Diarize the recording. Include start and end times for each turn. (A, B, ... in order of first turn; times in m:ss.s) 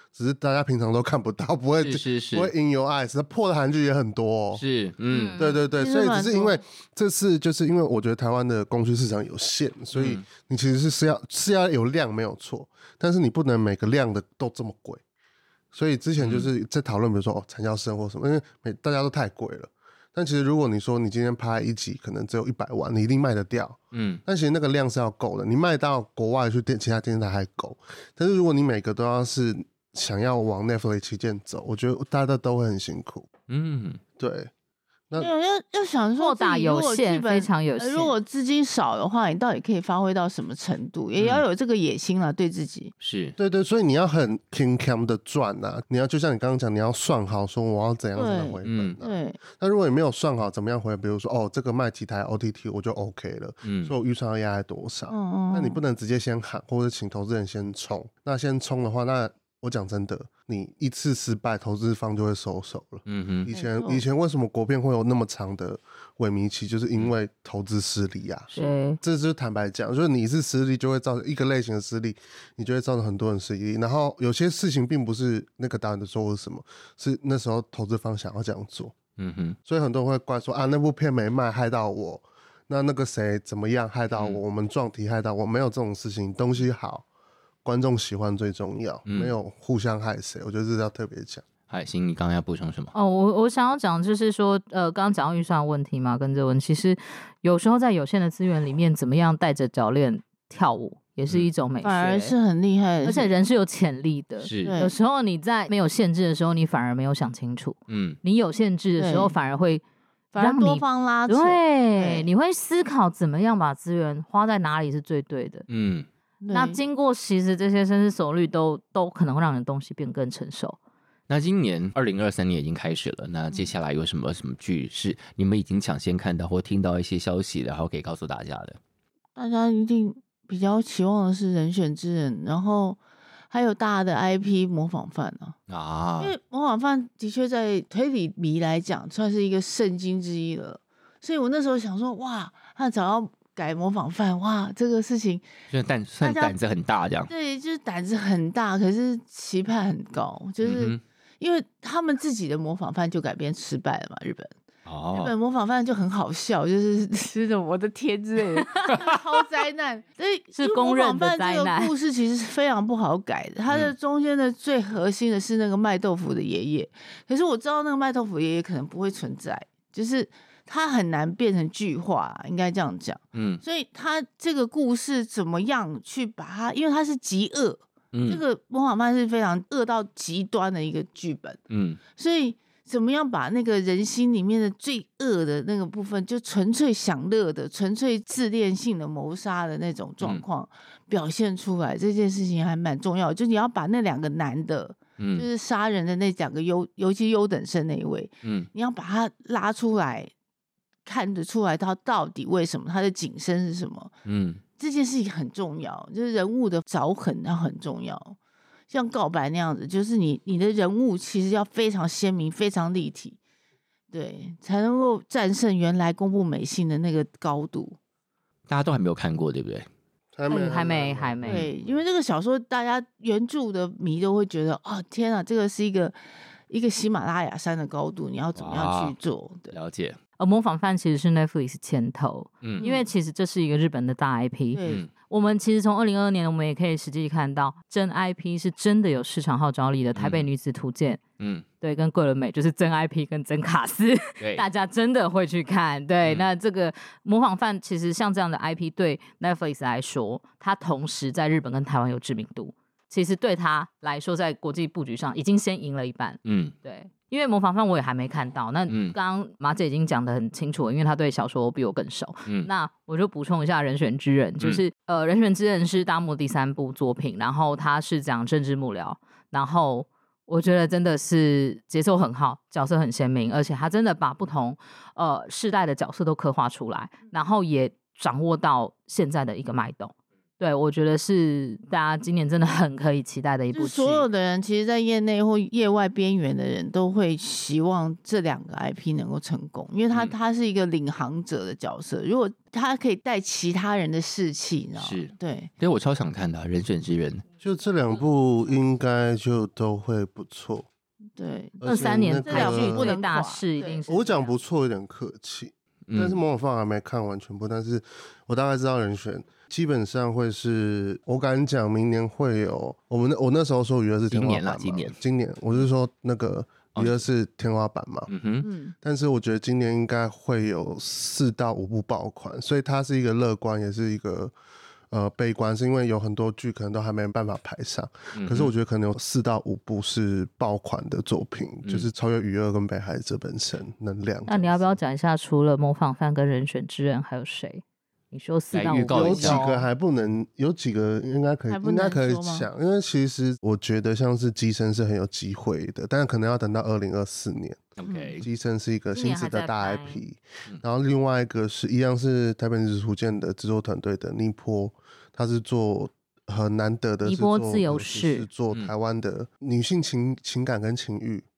0:00.1-0:04.6 A
0:01.8-0:02.5 B
0:04.6-0:05.4 B
0:05.1-0:05.6 C
0:05.4-0:15.0 A
0:05.8-0:06.6 D
0:09.9-0:10.2 B
0:15.7-0:33.3 A
0:16.2-0:16.5 B
0:23.9-0:24.2 B
0:33.5-0:34.0 B
0:34.2-0:34.5 A
0:35.2-0:42.9 D
0:36.2-0:38.1 C
0:41.2-0:41.4 B
0:43.0-0:43.4 B
0:43.4-1:19.0 A
0:48.2-0:49.4 D
0:48.7-0:49.0 B
0:53.6-0:53.9 B
0:55.1-0:55.8 D
1:03.1-1:03.5 B
1:03.5-1:04.0 D
1:08.6-1:09.0 C
1:19.2-1:19.6 B
1:19.7-1:27.0 A
1:24.1-1:24.4 B
1:27.6-1:31.4 A
1:29.1-1:29.3 B
1:31.7-1:32.9 B
1:32.9-1:42.4 C
1:41.8-1:43.3 D
1:43.0-1:49.8 C
1:44.4-1:44.8 B
1:44.6-1:44.9 D
1:47.9-1:48.2 B
1:49.0-1:49.3 D
1:50.3-1:52.3 D
1:50.4-1:55.7 C
1:55.7-1:56.1 B
1:56.4-1:56.8 D
1:56.5-2:00.8 C
2:01.3-2:08.8 B
2:09.4-2:13.0 D
2:13.5-2:15.6 D
2:15.7-2:16.3 B
2:16.2-2:25.4 D
2:25.7-2:27.3 B
2:26.2-2:26.6 D
2:27.3-2:34.5 D
2:30.6-2:31.0 B
2:34.9-2:35.3 B
2:35.1-3:01.6 D
2:40.6-2:42.0 C
2:43.7-2:43.9 B
2:53.3-2:53.6 B
2:58.1-2:58.4 B
3:01.7-3:02.0 B
3:02.1-3:20.3 D
3:15.2-3:15.5 B
3:18.4-3:18.7 B
3:21.1-3:24.1 D
3:24.3-3:24.6 B
3:24.8-3:28.4 D
3:28.9-3:33.4 D
3:34.1-3:38.0 D
3:38.7-3:39.9 B
3:40.3-3:42.0 A
3:40.5-3:41.7 C
3:41.4-3:41.7 B
3:41.4-3:46.2 D
3:46.7-3:49.7 D
3:48.6-3:49.1 B
3:49.7-3:50.2 B
3:50.4-4:01.2 C
3:52.8-3:53.1 D
3:54.7-3:55.1 D
4:00.1-4:00.5 B
4:01.4-4:01.6 B
4:01.8-4:44.3 C
4:16.4-4:16.8 B
4:18.9-4:19.2 B
4:43.7-4:55.7 D
4:55.0-4:57.4 B
4:57.6-5:00.9 A
5:01.4-5:04.0 D
5:01.8-5:03.1 A
5:01.8-5:04.6 C
5:04.1-5:18.3 A
5:06.1-5:06.4 B
5:14.3-5:15.2 B
5:16.9-5:17.2 B
5:18.3-5:18.7 B
5:18.6-5:19.0 D
5:19.0-5:24.5 A
5:25.1-5:35.0 A
5:28.4-5:28.7 B
5:34.4-5:39.9 C
5:38.7-5:39.6 B
5:39.1-5:47.9 A
5:41.7-5:42.7 D
5:48.0-5:48.5 B
5:48.1-5:48.4 D
5:48.4-6:01.5 A
5:49.1-5:50.2 C
5:57.2-5:58.5 C